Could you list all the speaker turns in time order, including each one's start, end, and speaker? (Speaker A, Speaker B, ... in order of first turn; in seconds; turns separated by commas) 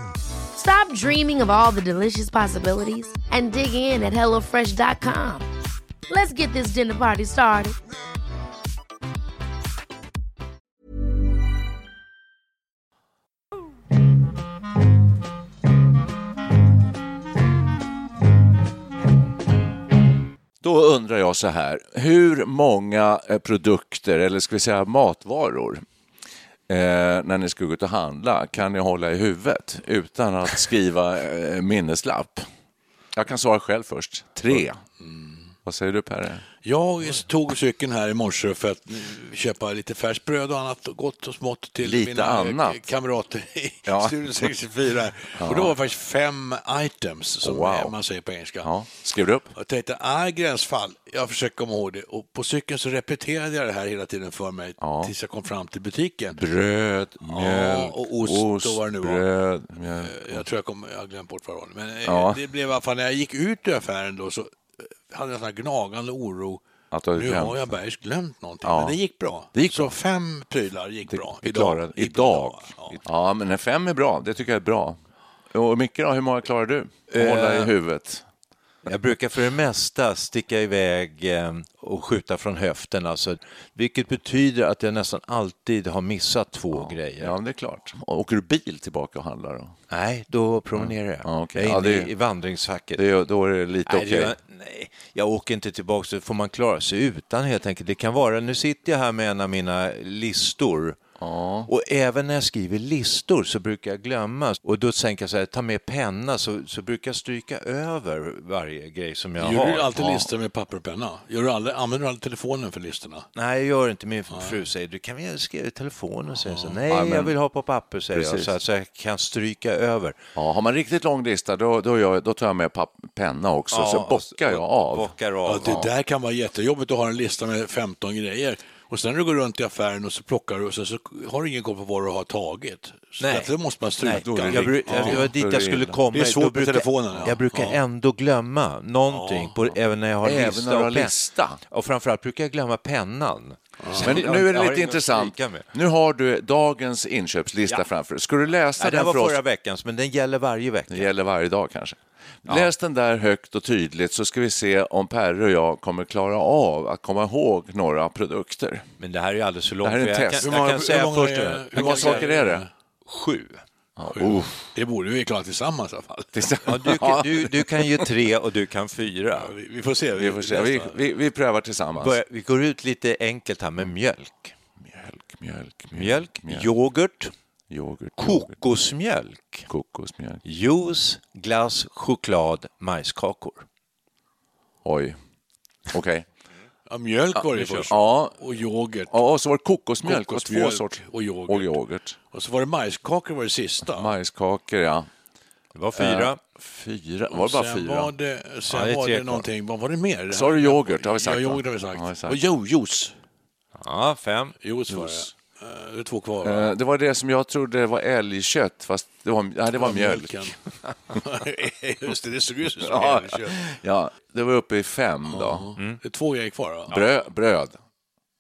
Speaker A: 0.5-5.5, Speaker A: 6.1-7.8, Speaker B: 20.6-25.8, Speaker B: 26.7-32.5, Speaker B: 33.1-34.8, Speaker C: 35.0-35.5, Speaker B: 35.7-36.5, Speaker C: 36.6-48.7, Speaker B: 41.8-42.9, Speaker B: 43.9-44.5, Speaker B: 45.4-45.8, Speaker B: 47.4-47.9, Speaker B: 48.6-49.5, Speaker C: 49.5-56.4, Speaker B: 54.8-55.1, Speaker B: 56.3-60.4, Speaker C: 57.2-59.3, Speaker C: 60.0-66.6, Speaker B: 62.0-62.4, Speaker B: 66.9-67.8, Speaker C: 67.2-73.0, Speaker B: 68.6-69.0, Speaker B: 69.5-70.0, Speaker B: 71.1-75.0, Speaker B: 75.5-78.2, Speaker D: 77.1-77.7, Speaker D: 78.8-87.4, Speaker B: 86.7-89.8, Speaker D: 89.9-93.0, Speaker B: 90.8-92.1, Speaker B: 93.0-94.3, Speaker D: 93.9-101.0, Speaker B: 101.2-101.7, Speaker D: 101.7-110.3, Speaker C: 109.4-113.3, Speaker D: 113.4-120.2, Speaker C: 114.3-114.6, Speaker C: 116.4-116.8, Speaker B: 116.9-117.3, Speaker B: 118.1-118.5, Speaker B: 120.3-125.1, Speaker D: 123.7-125.8, Speaker C: 125.5-135.3, Speaker B: 125.6-125.9, Speaker D: 133.2-141.1, Speaker B: 134.1-136.0, Speaker C: 136.1-137.8, Speaker C: 139.1-139.5, Speaker B: 140.2-141.6, Speaker D: 141.7-145.7, Speaker C: 143.8-144.2, Speaker B: 144.0-149.4, Speaker D: 148.8-151.1, Speaker B: 150.9-158.9, Speaker D: 159.0-162.3, Speaker B: 159.8-160.5, Speaker C: 160.4-162.7, Speaker B: 161.7-162.6, Speaker D: 163.1-163.6, Speaker B: 164.0-164.7, Speaker C: 164.1-166.4, Speaker B: 166.3-167.7, Speaker D: 166.7-169.5, Speaker C: 169.3-171.0, Speaker B: 170.2-172.2, Speaker D: 172.0-174.5, Speaker B: 174.8-176.7, Speaker D: 175.9-177.3, Speaker B: 177.7-178.6, Speaker D: 178.2-179.7, Speaker B: 179.7-180.4, Speaker D: 180.4-183.7, Speaker B: 184.8-185.2, Speaker B: 185.9-186.3, Speaker C: 186.9-189.1, Speaker B: 187.5-188.4, Speaker B: 189.1-192.2, Speaker C: 190.1-191.8, Speaker C: 192.3-194.2, Speaker B: 193.9-195.1, Speaker D: 195.8-196.4, Speaker B: 196.0-198.1, Speaker C: 197.3-203.2, Speaker D: 198.7-199.4, Speaker B: 200.3-202.4, Speaker D: 203.8-204.6, Speaker C: 204.6-206.7, Speaker B: 206.4-210.5, Speaker C: 209.8-210.6, Speaker C: 211.1-213.6, Speaker B: 212.8-215.7, Speaker C: 215.3-217.1, Speaker B: 216.9-217.8